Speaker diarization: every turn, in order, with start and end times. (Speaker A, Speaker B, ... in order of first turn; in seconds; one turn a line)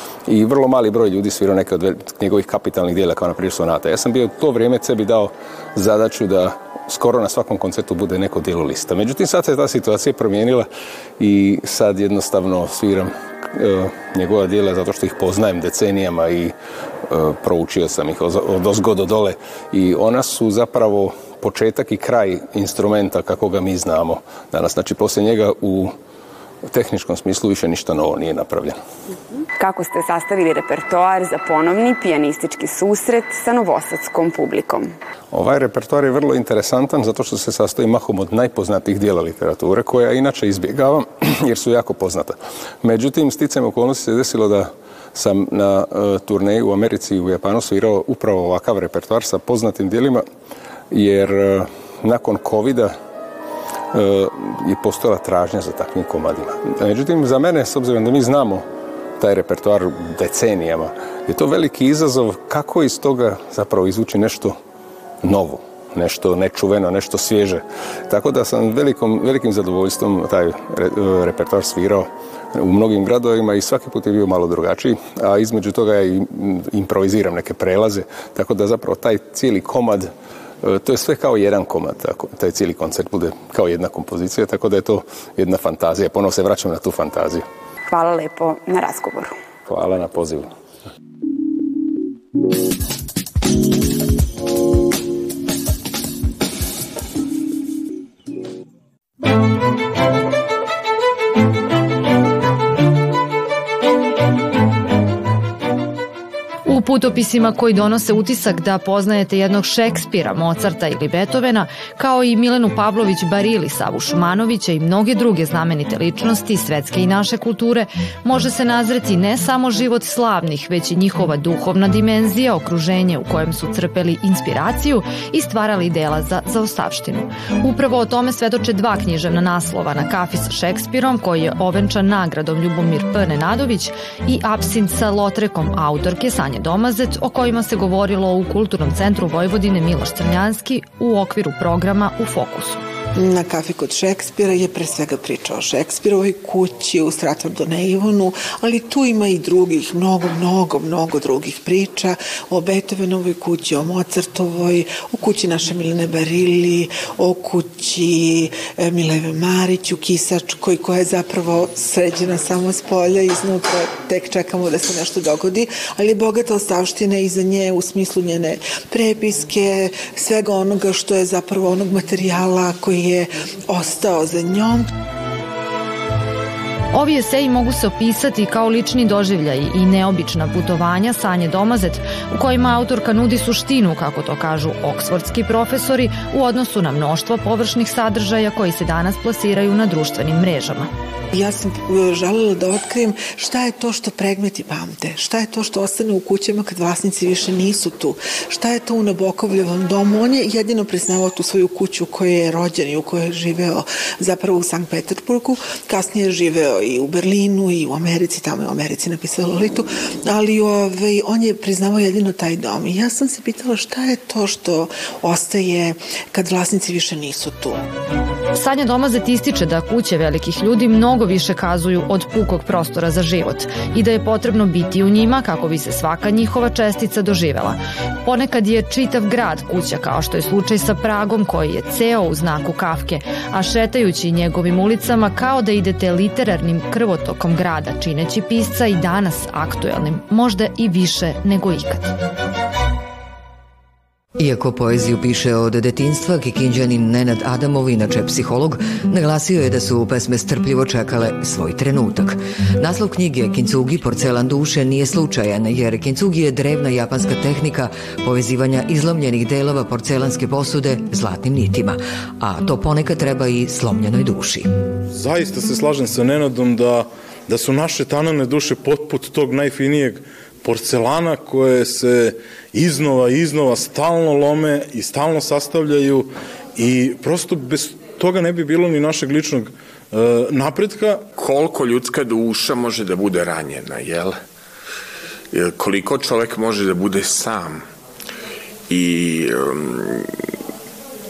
Speaker A: 0.3-10.7
Speaker A: 11.2-16.5
Speaker A: 17.1-25.9
Speaker A: 26.7-28.8
Speaker B: 29.6-34.9
Speaker A: 35.3-50.2
Speaker A: 50.9-52.9
Speaker A: 53.9-58.6
Speaker A: 59.2-64.5
Speaker A: 65.2-80.1
Speaker A: 80.6-87.4
Speaker B: 87.9-89.3
Speaker A: 89.7-90.5
Speaker C: 106.6-142.8
Speaker D: 143.2-174.9
Speaker C: 176.9-190.9
Speaker D: 191.3-217.8
Speaker C: 218.5-242.1
Speaker E: 244.4-264.7
Speaker F: 265.1-281.2
Speaker G: 281.4-284.3
Speaker G: 285.5-287.8
Speaker G: 288.9-290.2